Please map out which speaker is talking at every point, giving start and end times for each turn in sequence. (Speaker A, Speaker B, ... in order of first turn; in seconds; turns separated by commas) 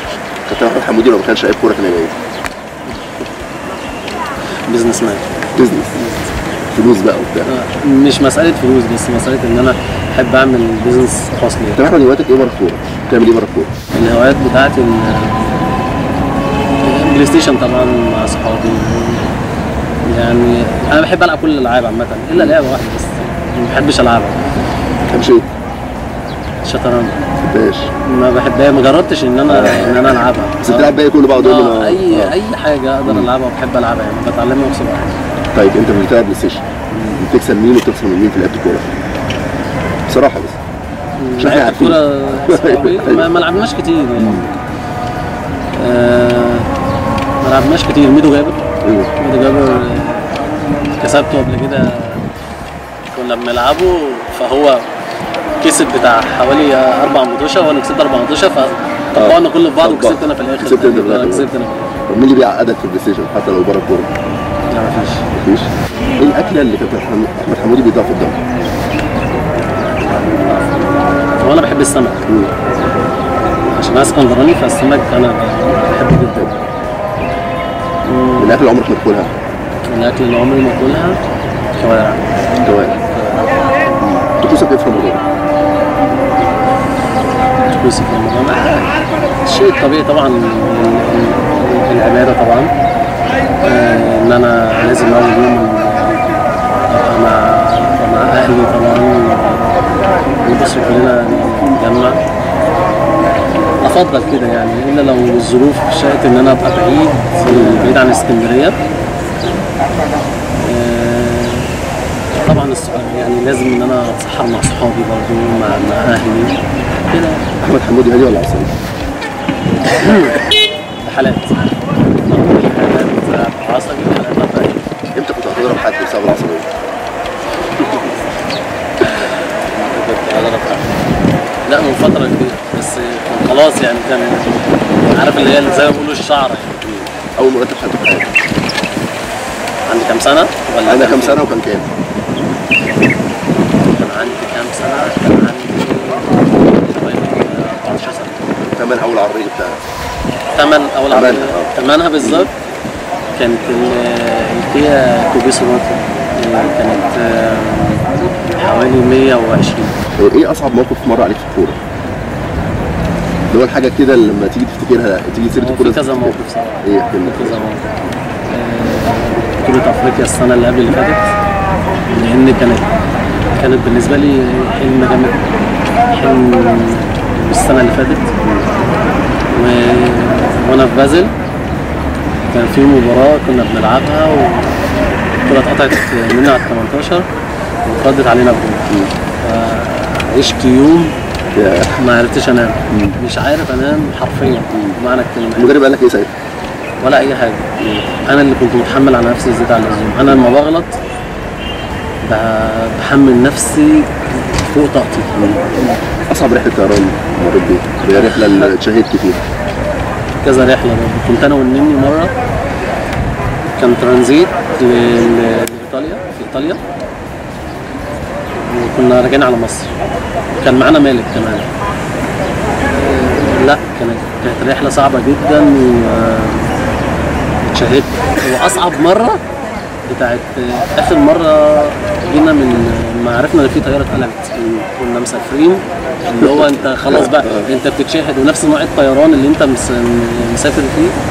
Speaker A: 0.5-2.2, Speaker B: 4.7-5.3, Speaker A: 5.5-5.9, Speaker B: 5.9-6.3, Speaker A: 6.7-7.5, Speaker B: 7.5-11.8, Speaker A: 11.8-13.7, Speaker B: 13.9-15.8, Speaker B: 16.8-19.4, Speaker B: 20.1-24.4, Speaker A: 25.1-25.5, Speaker B: 26.6-27.2, Speaker A: 27.4-27.9, Speaker B: 28.1-35.1, Speaker A: 29.5-32.4, Speaker A: 33.1-33.3, Speaker A: 35.5-38.9, Speaker A: 40.1-40.6, Speaker B: 41.2-44.5, Speaker A: 41.4-43.3, Speaker A: 44.2-44.5, Speaker B: 45.8-46.7, Speaker B: 47.4-48.6, Speaker A: 48.8-49.1, Speaker B: 49.2-50.4, Speaker B: 51.0-52.2, Speaker B: 53.1-54.9, Speaker B: 55.6-62.0, Speaker A: 59.1-61.5, Speaker A: 62.1-64.1, Speaker B: 64.7-65.3, Speaker A: 65.3-68.4, Speaker B: 69.8-72.2, Speaker B: 73.7-76.7, Speaker B: 78.0-78.6, Speaker A: 78.4-79.3, Speaker B: 79.9-81.2, Speaker B: 81.8-82.3, Speaker A: 82.6-83.0, Speaker B: 83.2-83.5, Speaker A: 84.0-85.2, Speaker B: 87.7-88.9, Speaker B: 89.5-92.7, Speaker B: 93.6-96.2, Speaker B: 96.9-99.8, Speaker B: 100.4-102.2, Speaker B: 103.8-108.8, Speaker A: 107.5-108.0, Speaker B: 110.6-111.8, Speaker B: 112.4-117.4, Speaker A: 117.6-118.8, Speaker B: 119.8-120.4, Speaker B: 121.0-121.5, Speaker B: 122.2-124.8, Speaker A: 125.2-126.7, Speaker B: 127.7-128.3, Speaker B: 129.0-131.0, Speaker B: 131.7-137.0, Speaker A: 136.9-138.3, Speaker B: 139.9-141.4, Speaker A: 140.9-141.9, Speaker B: 143.8-148.5, Speaker A: 148.7-149.8, Speaker B: 150.6-152.6, Speaker A: 151.1-152.5, Speaker B: 153.4-160.0, Speaker A: 160.2-161.8, Speaker A: 163.5-167.6, Speaker B: 165.6-167.9, Speaker B: 168.5-171.3, Speaker B: 172.1-172.9, Speaker B: 173.6-175.4, Speaker B: 176.1-178.3, Speaker A: 178.4-178.7, Speaker B: 179.5-181.3, Speaker B: 182.5-184.8, Speaker B: 185.4-187.2, Speaker B: 187.9-191.2, Speaker A: 191.6-192.0, Speaker B: 191.9-195.8, Speaker A: 192.9-193.2, Speaker A: 194.7-195.0, Speaker A: 195.6-196.3, Speaker B: 197.0-200.9, Speaker B: 202.2-205.4, Speaker A: 205.4-205.7, Speaker A: 206.3-209.4, Speaker B: 208.1-208.7, Speaker B: 210.4-212.3, Speaker B: 213.8-216.8, Speaker B: 218.6-219.9, Speaker B: 220.6-221.7, Speaker B: 222.8-226.7, Speaker B: 227.6-229.4, Speaker B: 230.1-241.2, Speaker A: 234.6-234.8, Speaker A: 236.3-237.7